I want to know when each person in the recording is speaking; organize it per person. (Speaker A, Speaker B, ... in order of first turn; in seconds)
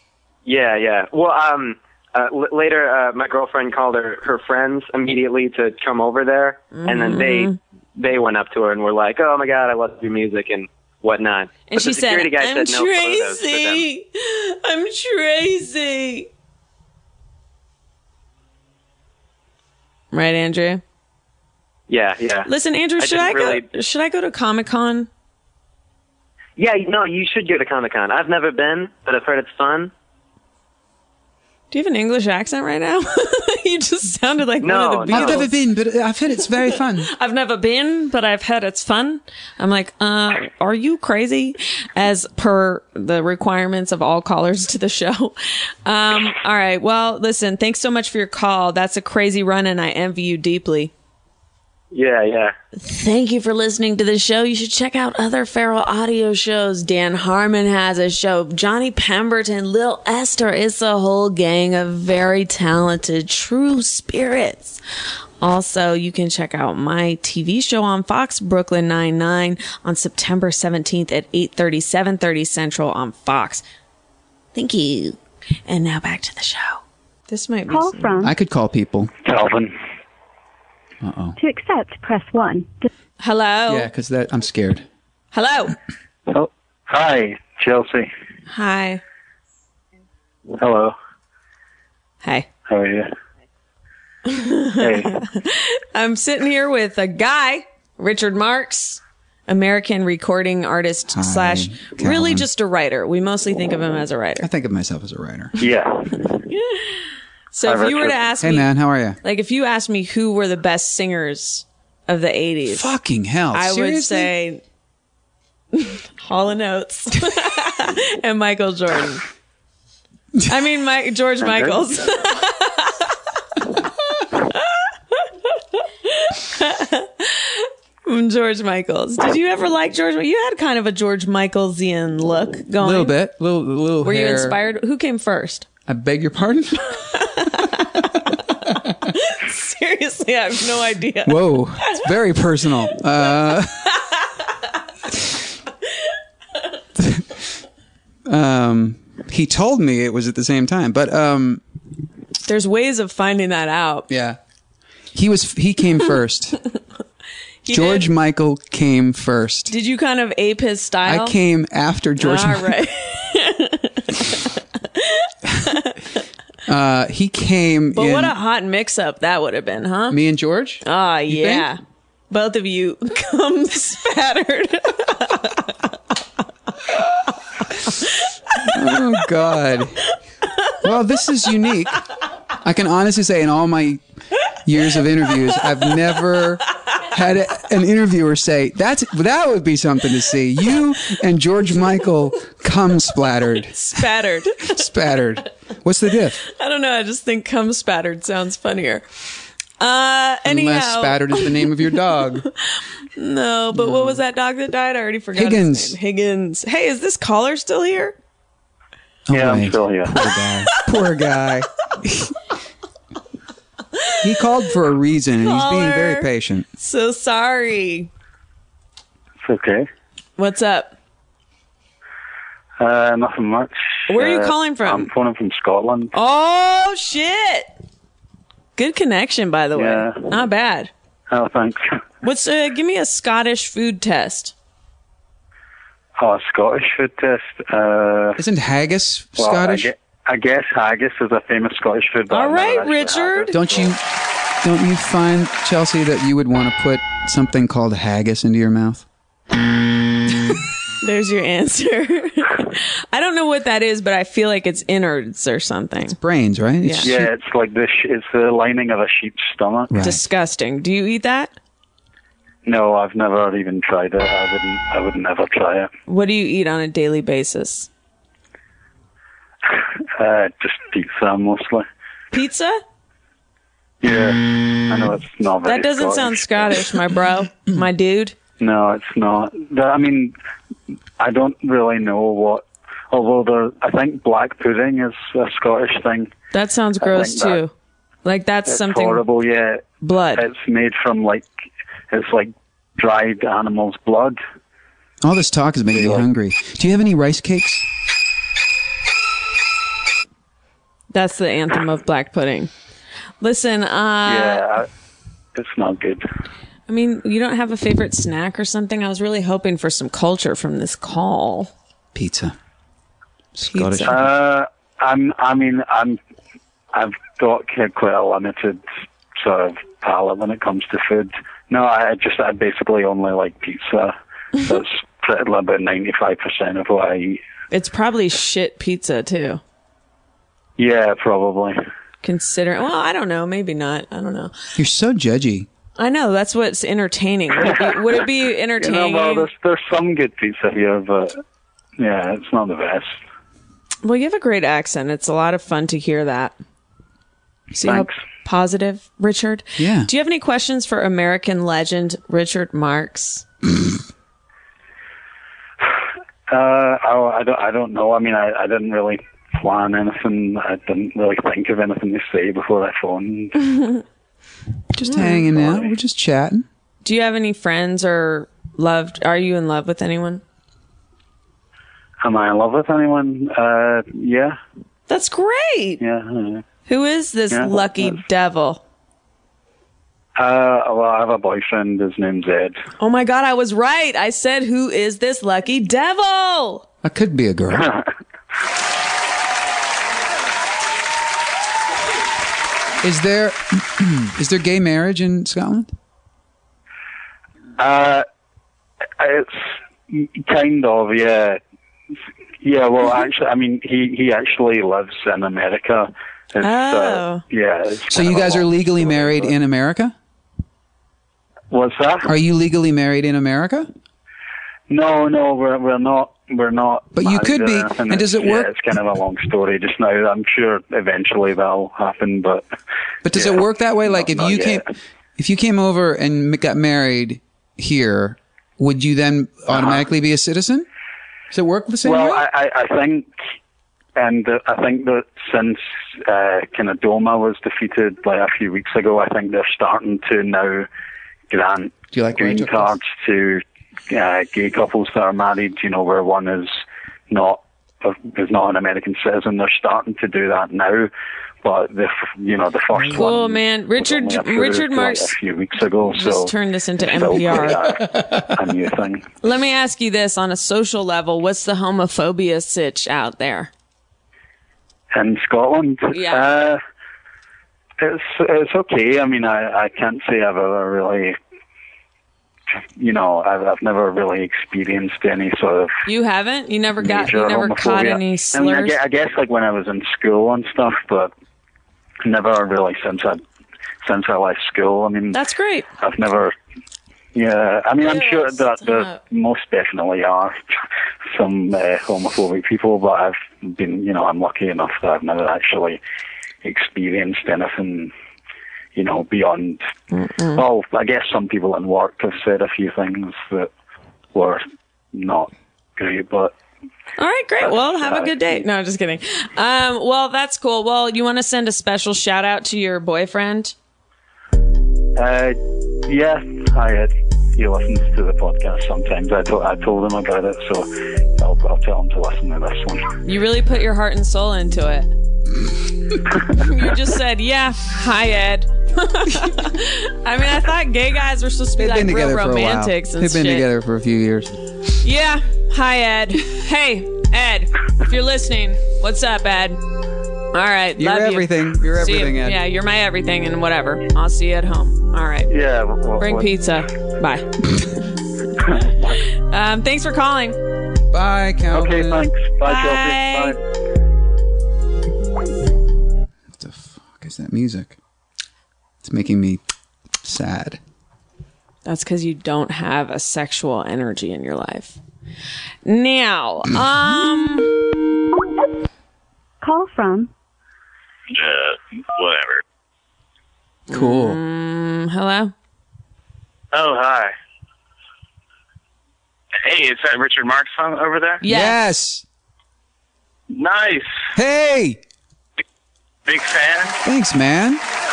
Speaker A: 0.4-13.8, 21.9-23.6, 26.6-29.9, 34.6-35.4, 51.9-52.5
Speaker B: 6.7-7.6, 11.7-16.3, 20.1-20.8, 22.4-25.1, 31.7-35.5, 37.0-50.9, 52.8-64.8, 65.4-73.6, 74.5-78.0, 83.2-83.9, 85.3-85.8, 88.5-89.0, 94.2-104.5, 106.5-108.7, 109.2-112.9, 113.5-114.6, 115.7-119.2, 120.5-123.1, 124.3-133.2, 134.0-135.7, 137.1-138.1, 139.1-142.0, 144.0-144.2, 152.4-154.1, 157.6-158.1, 159.7-161.3, 162.2-166.0, 167.9-170.2, 170.8-171.8, 172.3-175.9, 177.8-178.1, 193.7-194.8, 196.4-199.0, 199.8-201.6, 203.2-208.2, 215.4-218.1, 220.4-220.9, 224.1-225.1, 226.1-227.7, 228.8-230.9, 232.2-234.5, 242.3-243.5, 251.0-256.2, 256.8-257.1, 260.0-261.5, 266.1-267.9, 272.3-272.8, 275.6-278.4, 286.5-287.7, 288.2-289.2, 290.0-290.4, 301.1-302.7, 303.4-304.6, 306.9-311.7, 313.6-314.1, 327.7-329.6, 332.2-334.5, 336.0-339.5, 344.0-346.6, 347.7-353.4, 367.0-370.4, 375.1-376.0, 376.9-378.8, 383.0-386.9, 406.6-407.4, 453.1-455.3, 456.1-457.8, 459.4-463.7, 466.1-466.4, 476.1-478.9, 485.3-485.9, 488.0-489.2, 500.1-500.6, 507.2-513.7, 523.2-525.1, 526.5-533.7, 535.0-539.8, 540.5-545.5, 546.2-547.5, 549.1-550.6, 552.6-553.5, 561.8-565.0, 565.8-567.8, 573.9-575.5, 581.4-581.8
Speaker C: 35.1-37.1, 78.2-79.1, 81.0-81.4, 83.7-84.9, 101.1-102.5, 104.4-105.6, 108.4-109.2, 112.7-114.3, 132.8-134.6, 135.9-137.0, 138.7-138.9, 141.2-143.9, 146.9-147.4, 148.2-151.6, 154.1-154.4, 155.1-156.6, 157.7-159.7, 161.1-162.8, 166.7-168.4, 170.1-171.7, 178.6-180.1, 180.8-182.0, 182.6-184.0, 184.6-194.1, 194.6-196.4, 200.4-202.4, 203.7-204.2, 205.3-206.0, 209.3-212.3, 214.2-216.7, 238.4-239.9, 243.5-244.0, 244.6-249.0, 256.1-257.3, 259.9-260.2, 295.2-297.8, 312.1-312.5, 313.5-314.3, 334.8-335.7, 349.8-350.1, 364.9-366.6, 387.0-387.9, 393.0-395.9, 408.1-410.1, 412.2-413.9, 417.1-418.7, 423.2-424.8, 425.4-430.9, 431.5-432.4, 442.1-442.9, 452.9-453.3, 531.8-534.6, 541.0-542.6, 551.1-552.3, 556.5-558.0, 559.0-559.6, 560.2-560.8, 573.9-574.4, 581.4-582.2, 584.3-585.0, 587.0-587.8
Speaker D: 77.7-78.3, 81.3-82.9, 569.6-570.3
Speaker E: 79.2-79.8, 86.3-88.1, 90.5-90.9, 92.7-93.1, 94.8-95.1, 105.6-106.4, 107.6-108.2, 121.4-121.9, 209.3-210.3, 219.4-219.9, 222.8-226.1, 229.7-230.2, 231.3-232.0, 236.2-238.4, 239.4-243.9, 257.0-259.9, 262.6-265.9, 269.7-271.9, 274.0-276.9, 278.6-280.3, 281.2-286.3, 287.0-287.6, 288.7-291.5, 292.1-294.4, 295.9-296.2, 304.2-304.9, 305.5-306.2, 314.1-316.2, 316.9-318.8, 319.4-327.4, 330.8-331.8, 338.8-341.4, 342.0-343.2, 347.8-348.2, 356.5-363.9, 365.2-365.9, 372.2-374.6, 376.0-376.6, 377.5-378.2, 380.4-382.8, 387.7-388.1, 397.8-398.2, 399.2-401.6, 402.6-409.5, 411.7-412.3, 414.9-422.6, 423.3-424.9, 429.7-430.0, 432.0-433.3, 434.1-440.9, 441.5-451.1, 451.6-459.3, 465.1-466.8, 468.0-471.4, 473.0-476.0, 477.0-481.3, 482.2-483.4, 484.0-485.4, 486.0-486.5, 487.3-490.6, 491.3-496.0, 496.6-498.1, 498.9-499.8, 500.5-503.7, 504.3-506.5, 507.6-508.6, 515.1-523.1, 545.5-546.5, 551.7-553.6
Speaker F: 571.3-572.6, 576.7-577.3, 579.6-581.4, 583.5-584.3, 586.2-587.0